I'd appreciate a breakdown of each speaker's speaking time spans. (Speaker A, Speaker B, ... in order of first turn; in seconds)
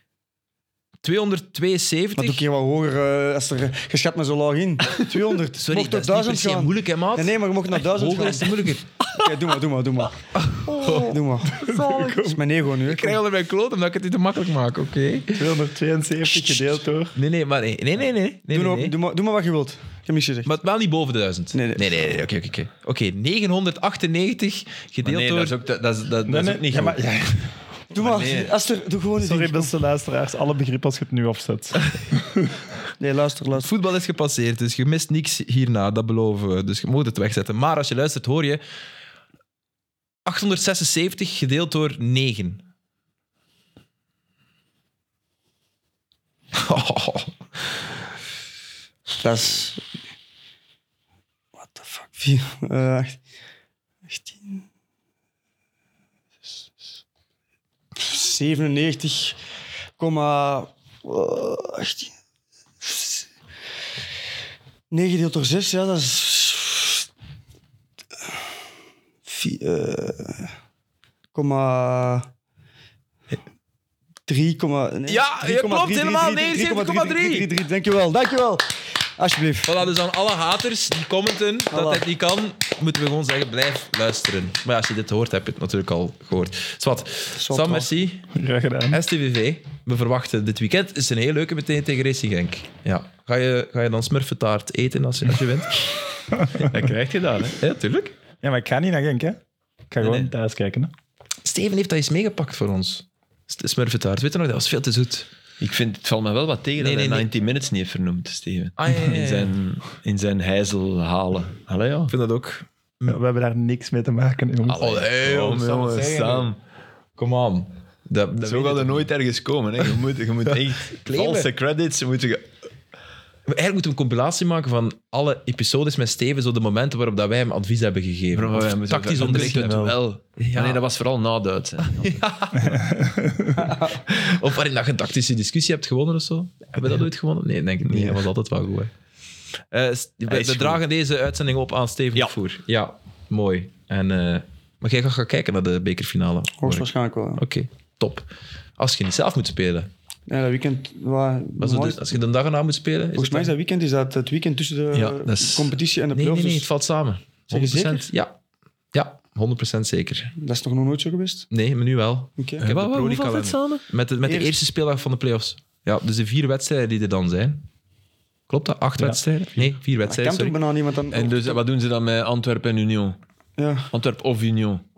Speaker A: 1.0-2.5, 5.6-9.4, 10.3-15.5, 16.4-18.9, 20.4-25.6, 33.6-38.6, 40.2-42.6, 46.6-47.3, 75.1-77.5, 79.6-88.3, 88.9-95.9, 97.6-98.2, 101.4-105.3, 106.8-107.3, 108.8-109.5, 112.1-113.2, 114.8-116.5, 117.2-119.1, 121.0-121.5, 123.5-130.8, 131.9-133.0, 133.6-138.9, 139.7-148.3, 148.8-149.9, 151.6-153.5, 156.1-158.4, 158.9-160.3, 161.5-167.7, 168.5-170.6
Speaker B: 2.2-8.5, 9.1-10.2, 10.8-13.2, 18.5-20.5, 21.5-22.0, 27.9-29.7, 33.0-33.7, 49.1-49.8, 51.6-53.2, 54.1-54.6, 58.0-59.4, 60.0-62.1, 62.8-63.3, 64.9-67.0, 69.2-70.5, 71.3-72.3, 74.3-79.7, 81.7-82.0, 87.4-87.9, 133.6-134.0, 146.6-147.4, 150.3-152.2, 153.1-156.7, 157.5-158.1, 160.4-161.5, 162.4-162.6, 164.3-164.5, 170.0-171.6, 173.6-173.9
Speaker C: 11.5-12.4, 15.3-17.2, 26.2-27.6, 29.2-32.5, 88.3-89.0, 98.4-99.4, 99.9-100.9, 113.0-115.0, 129.2-130.0, 132.7-133.7, 169.0-169.8
Speaker D: 25.0-27.0, 27.9-28.6, 96.5-97.6, 100.0-100.3, 105.6-112.1, 114.7-116.6, 118.4-122.5, 128.3-132.2, 137.8-138.2, 140.3-140.8, 154.9-155.8, 162.6-163.8, 171.1-173.2, 173.9-174.8